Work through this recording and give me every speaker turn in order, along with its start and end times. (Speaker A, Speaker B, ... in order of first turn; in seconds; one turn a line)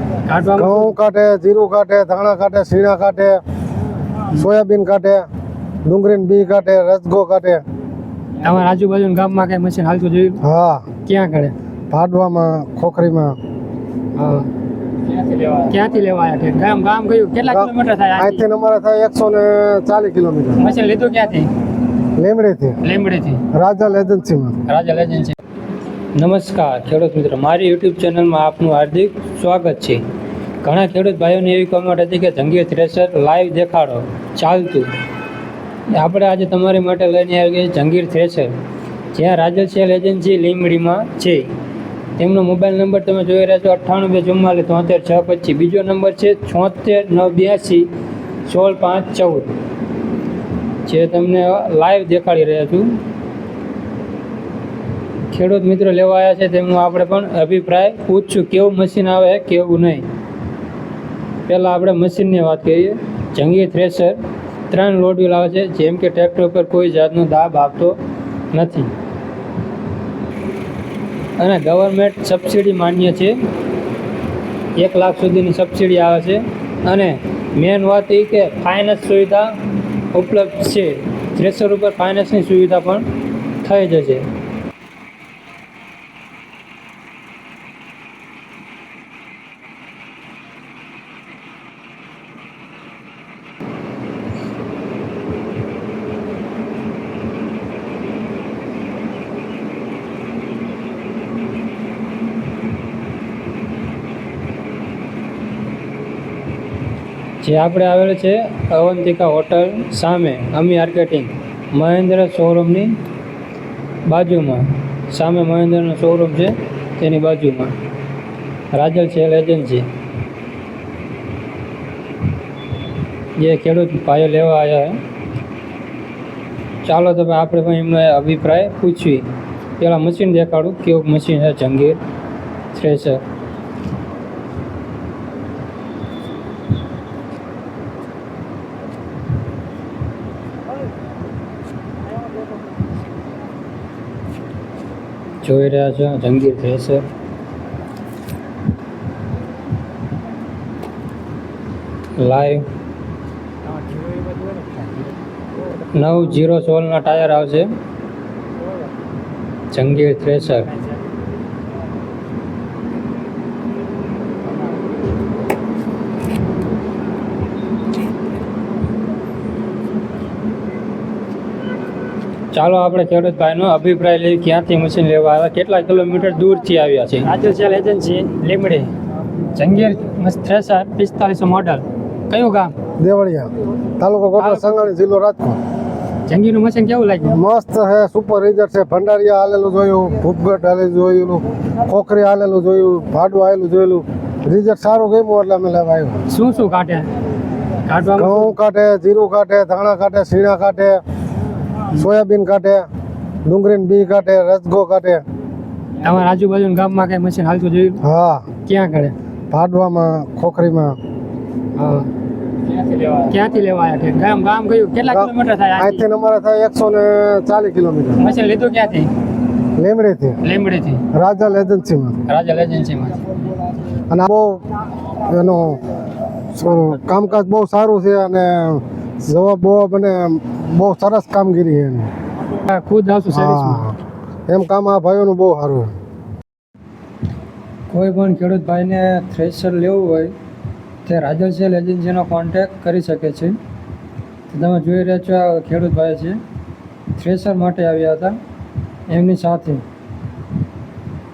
Speaker A: 0.2-0.9
Speaker B: 0.5-3.4
Speaker B: 4.3-5.3
Speaker B: 5.8-7.6
Speaker A: 8.4-10.4
Speaker B: 10.4-10.8
Speaker A: 11.0-11.5
Speaker B: 11.9-13.4
Speaker A: 14.1-14.5
Speaker A: 15.1-18.4
Speaker B: 17.5-20.7
Speaker A: 20.6-21.5
Speaker B: 22.2-22.8
Speaker A: 22.8-23.4
Speaker B: 23.5-24.6
Speaker A: 24.7-25.4
Speaker A: 26.1-30.0
Speaker A: 30.6-34.9
Speaker A: 35.9-38.5
Speaker A: 39.1-41.5
Speaker A: 42.2-47.9
Speaker A: 48.4-49.5
Speaker A: 50.9-53.0
Speaker A: 55.3-60.1
Speaker A: 61.5-68.0
Speaker A: 68.5-68.9
Speaker A: 71.4-73.4
Speaker A: 74.8-83.0
Speaker A: 83.6-84.3
Speaker A: 107.4-113.0
Speaker A: 114.0-117.7
Speaker A: 118.7-119.9
Speaker A: 123.4-125.0
Speaker A: 126.8-129.3
Speaker A: 129.8-132.0
Speaker A: 132.7-133.2
Speaker A: 145.4-147.0
Speaker A: 152.2-152.7
Speaker A: 155.9-157.7
Speaker A: 159.7-160.8
Speaker A: 172.5-178.9
Speaker A: 179.5-182.7
Speaker B: 183.0-185.6
Speaker A: 184.4-184.9
Speaker A: 186.3-187.4
Speaker B: 187.3-196.2
Speaker A: 196.3-197.1
Speaker A: 197.8-198.5
Speaker B: 198.2-201.0
Speaker B: 201.9-202.9
Speaker B: 203.4-205.2
Speaker A: 206.0-208.0
Speaker B: 208.0-208.5
Speaker A: 208.6-209.1
Speaker B: 209.5-211.0
Speaker A: 211.7-212.1
Speaker A: 212.7-216.0
Speaker B: 215.1-218.2
Speaker A: 218.2-219.1
Speaker B: 219.8-220.4
Speaker A: 220.4-221.0
Speaker B: 221.1-222.2
Speaker A: 222.3-223.2
Speaker B: 224.1-225.8
Speaker B: 226.5-232.1
Speaker A: 232.7-233.8
Speaker B: 233.3-233.9
Speaker B: 234.5-235.9
Speaker A: 237.9-240.3
Speaker A: 241.0-243.6
Speaker A: 244.5-246.4
Speaker A: 247.1-248.4
Speaker A: 249.1-249.8